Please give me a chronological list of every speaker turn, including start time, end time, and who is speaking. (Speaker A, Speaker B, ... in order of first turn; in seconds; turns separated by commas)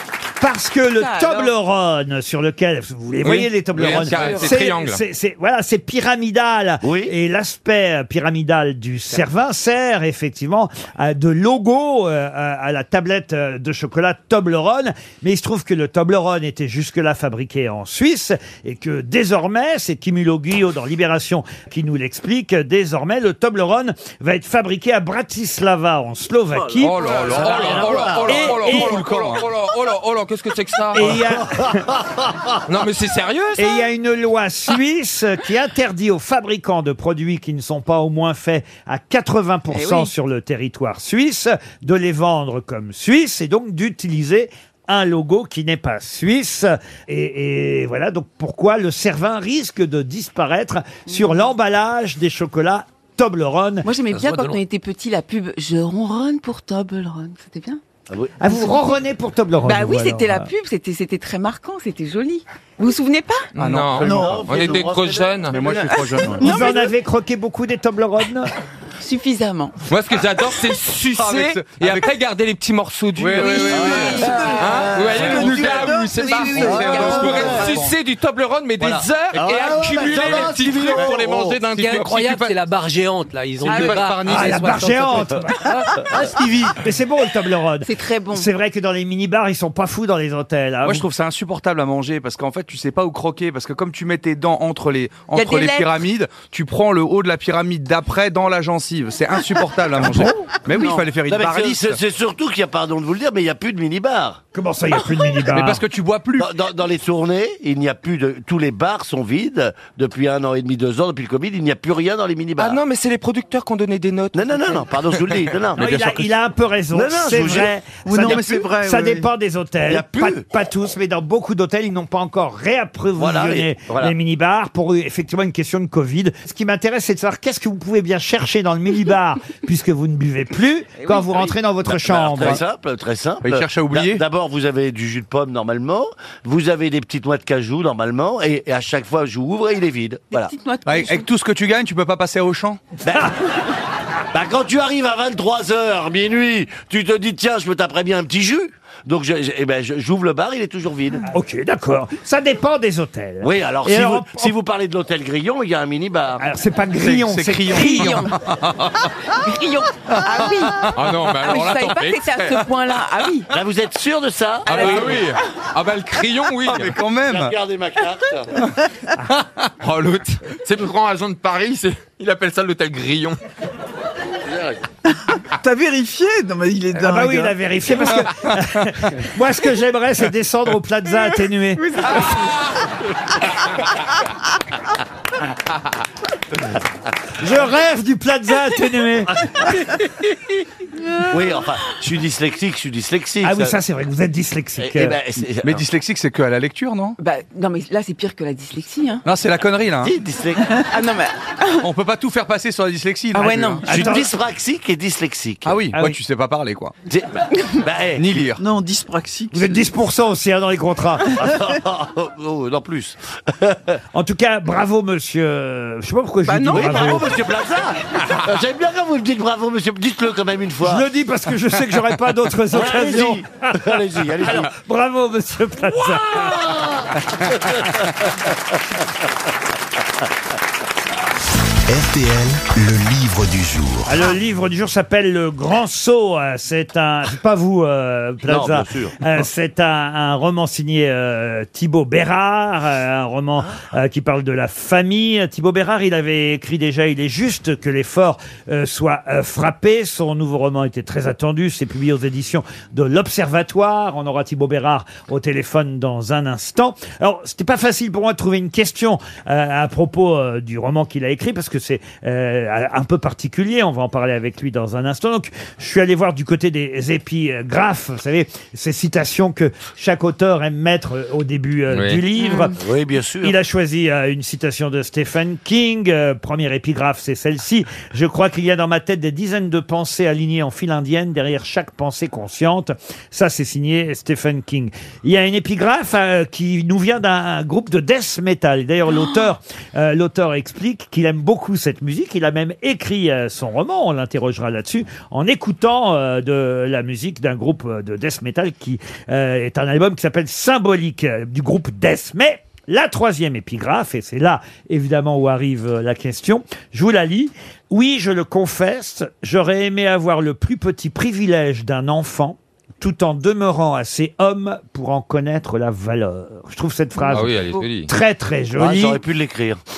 Speaker A: 0.4-27.0, Speaker B: 1.0-1.5, Speaker C: 3.2-4.4, Speaker D: 3.7-5.0, Speaker E: 6.8-7.1, Speaker D: 26.8-31.2, Speaker E: 27.1-28.6, Speaker C: 27.2-29.4, Speaker A: 28.2-29.1, Speaker A: 30.9-31.8, Speaker E: 31.1-32.5, Speaker D: 32.7-33.9, Speaker A: 33.6-53.9, Speaker B: 39.7-40.1, Speaker B: 53.8-57.8, Speaker F: 54.1-54.6, Speaker E: 58.1-58.4, Speaker A: 58.4-60.5, Speaker B: 59.6-63.5, Speaker C: 63.6-64.4, Speaker D: 63.6-65.8, Speaker E: 64.0-65.8, Speaker G: 64.0-64.4, Speaker C: 65.5-66.6, Speaker B: 65.8-66.9, Speaker A: 66.4-68.5, Speaker B: 69.0-69.8, Speaker D: 69.9-82.6, Speaker C: 71.2-72.1, Speaker C: 73.2-74.3, Speaker B: 73.4-74.9, Speaker E: 73.7-75.9, Speaker G: 74.4-77.4, Speaker C: 75.1-75.7, Speaker B: 76.2-76.9, Speaker E: 76.5-77.8, Speaker C: 76.5-77.9, Speaker E: 79.3-81.6, Speaker C: 80.1-80.5, Speaker F: 81.7-86.6, Speaker B: 83.6-84.0, Speaker C: 83.7-84.5, Speaker A: 84.2-85.7, Speaker C: 86.4-86.7, Speaker A: 86.8-91.1, Speaker B: 87.8-88.5, Speaker C: 90.8-102.0, Speaker B: 95.3-96.0, Speaker A: 100.0-100.3, Speaker E: 101.2-104.4, Speaker A: 104.5-105.8, Speaker C: 105.5-106.5, Speaker E: 106.4-112.8, Speaker D: 112.6-115.4, Speaker E: 114.3-116.0, Speaker A: 115.8-132.6, Speaker C: 115.8-116.2, Speaker E: 116.9-117.7, Speaker G: 118.0-119.3, Speaker E: 118.2-118.6, Speaker E: 119.9-120.5, Speaker E: 123.2-124.1, Speaker B: 131.0-131.5, Speaker E: 131.9-140.5, Speaker C: 133.4-134.2, Speaker B: 140.3-141.3, Speaker C: 140.8-142.8, Speaker E: 143.0-143.3, Speaker E: 144.3-151.2, Speaker A: 151.3-154.5, Speaker E: 153.4-156.5, Speaker A: 156.4-158.3, Speaker C: 157.0-159.0, Speaker B: 157.7-158.3, Speaker B: 159.3-163.5, Speaker D: 160.9-162.6, Speaker E: 163.5-165.2, Speaker D: 164.7-167.0, Speaker C: 164.7-165.2, Speaker C: 166.7-167.6, Speaker E: 167.2-168.6, Speaker D: 169.8-173.4, Speaker E: 174.5-174.8, Speaker G: 175.6-177.5, Speaker A: 177.0-182.2, Speaker A: 187.4-189.5, Speaker E: 191.3-193.8, Speaker A: 193.4-195.2, Speaker E: 194.8-195.9, Speaker C: 195.6-197.2, Speaker B: 197.2-199.2, Speaker C: 199.2-200.1, Speaker E: 200.0-200.7, Speaker B: 200.9-201.9, Speaker C: 201.8-203.8, Speaker B: 203.3-203.9, Speaker A: 203.9-204.3, Speaker E: 203.9-205.9, Speaker C: 205.7-206.9, Speaker E: 207.1-208.5, Speaker C: 208.2-208.6, Speaker G: 208.6-209.8, Speaker A: 209.5-211.4, Speaker E: 211.3-214.0, Speaker A: 214.1-217.4, Speaker B: 216.5-216.9, Speaker E: 216.7-221.0, Speaker A: 220.8-226.6, Speaker E: 222.7-224.7, Speaker E: 225.9-228.6, Speaker H: 231.9-234.1, Speaker A: 234.1-272.8, Speaker E: 238.5-239.2, Speaker D: 271.9-272.2, Speaker B: 272.4-272.7, Speaker E: 272.7-273.6, Speaker A: 273.4-319.2, Speaker D: 317.3-318.1, Speaker E: 318.8-319.8